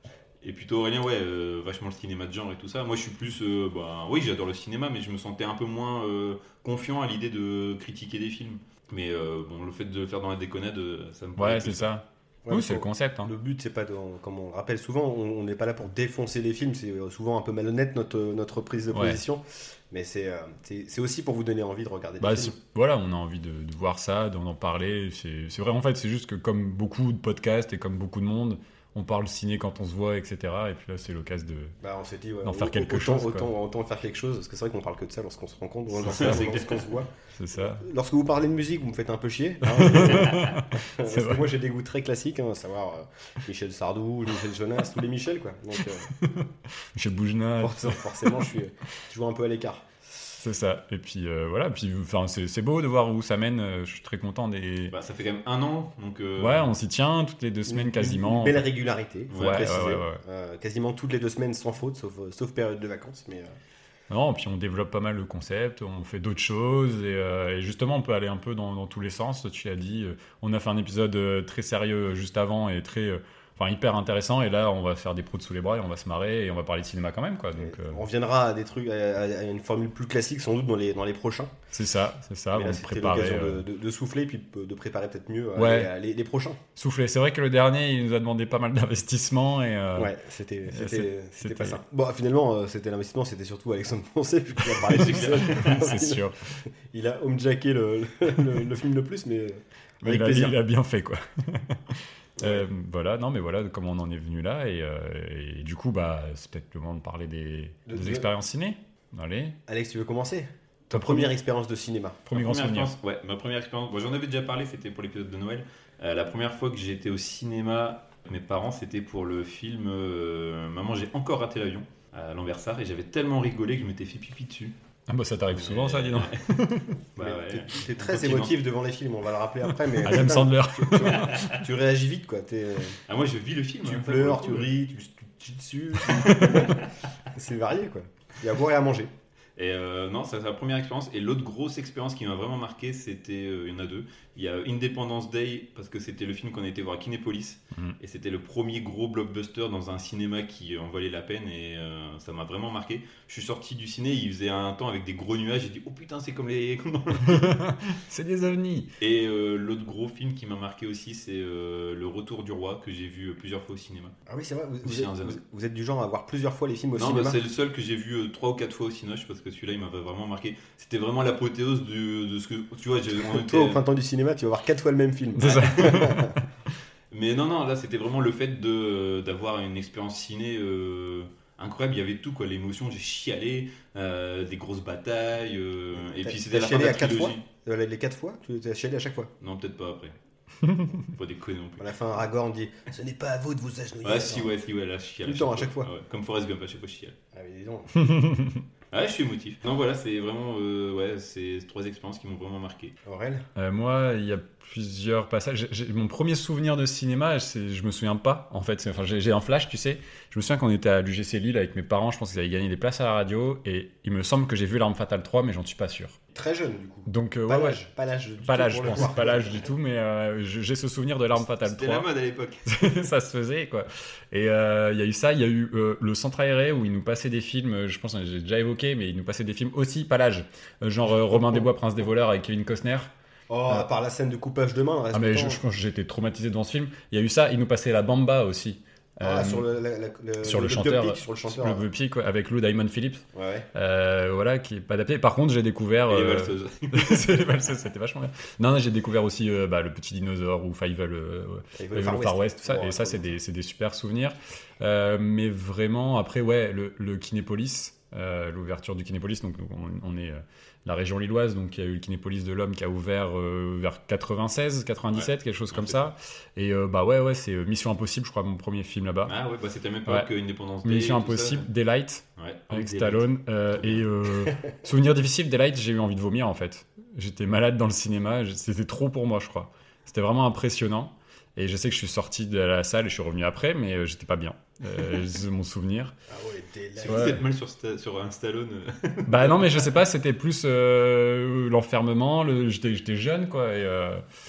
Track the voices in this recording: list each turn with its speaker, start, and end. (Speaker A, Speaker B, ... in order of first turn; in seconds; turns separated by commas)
Speaker A: 0.4-11.9, Speaker B: 11.4-13.3, Speaker C: 12.4-22.6, Speaker B: 18.9-19.2, Speaker B: 22.2-31.8, Speaker C: 31.8-46.1, Speaker B: 32.4-33.5, Speaker B: 36.0-36.5, Speaker A: 36.1-36.8, Speaker B: 37.4-37.8, Speaker B: 39.6-41.5, Speaker B: 46.1-48.5, Speaker C: 47.6-49.9, Speaker B: 50.4-55.0, Speaker A: 54.9-56.7, Speaker B: 56.4-58.6, Speaker C: 57.7-63.5, Speaker A: 59.3-59.6, Speaker B: 59.3-60.2, Speaker B: 64.1-78.0, Speaker C: 77.6-81.5, Speaker B: 81.7-83.6, Speaker C: 82.5-86.6, Speaker B: 85.6-85.9, Speaker B: 86.8-90.1, Speaker C: 90.0-100.6, Speaker B: 90.7-91.8, Speaker B: 94.8-96.4, Speaker A: 94.8-95.9, Speaker B: 100.0-109.6, Speaker C: 102.4-102.7, Speaker C: 107.9-108.3, Speaker C: 109.7-112.3, Speaker B: 110.9-111.3, Speaker B: 112.3-112.9, Speaker A: 112.3-124.8, Speaker B: 125.1-127.0, Speaker A: 125.5-126.5, Speaker A: 127.2-128.7, Speaker C: 127.2-133.0, Speaker B: 129.9-131.6, Speaker A: 131.1-131.6, Speaker A: 133.1-134.7, Speaker C: 133.8-139.1, Speaker B: 136.0-136.8, Speaker A: 139.6-157.6, Speaker B: 157.2-158.9, Speaker A: 159.0-164.2, Speaker C: 164.3-167.4, Speaker A: 164.8-165.4, Speaker A: 167.0-173.8, Speaker C: 173.2-176.4, Speaker B: 175.4-176.4, Speaker A: 175.4-176.2, Speaker A: 177.1-187.4, Speaker C: 186.2-189.3, Speaker A: 189.4-190.1, Speaker B: 190.6-191.0, Speaker A: 191.0-191.9, Speaker C: 191.8-194.5, Speaker A: 194.0-197.2, Speaker C: 195.2-195.9, Speaker C: 197.3-198.1, Speaker B: 198.0-198.6, Speaker A: 198.9-203.0, Speaker C: 203.1-203.4, Speaker B: 203.6-216.2, Speaker C: 216.3-219.7, Speaker B: 217.1-217.8, Speaker B: 218.4-222.1, Speaker A: 221.3-222.7, Speaker B: 222.7-233.1, Speaker C: 231.3-231.7, Speaker C: 233.5-235.6, Speaker B: 235.1-239.7, Speaker C: 239.2-241.8, Speaker B: 240.4-269.4, Speaker C: 243.3-243.7, Speaker A: 246.1-247.5, Speaker C: 251.8-253.4, Speaker A: 265.1-266.0, Speaker A: 269.3-271.7, Speaker B: 270.8-286.2, Speaker A: 272.4-274.1, Speaker C: 286.3-287.4, Speaker A: 287.0-289.9, Speaker B: 287.1-287.4, Speaker B: 289.3-294.2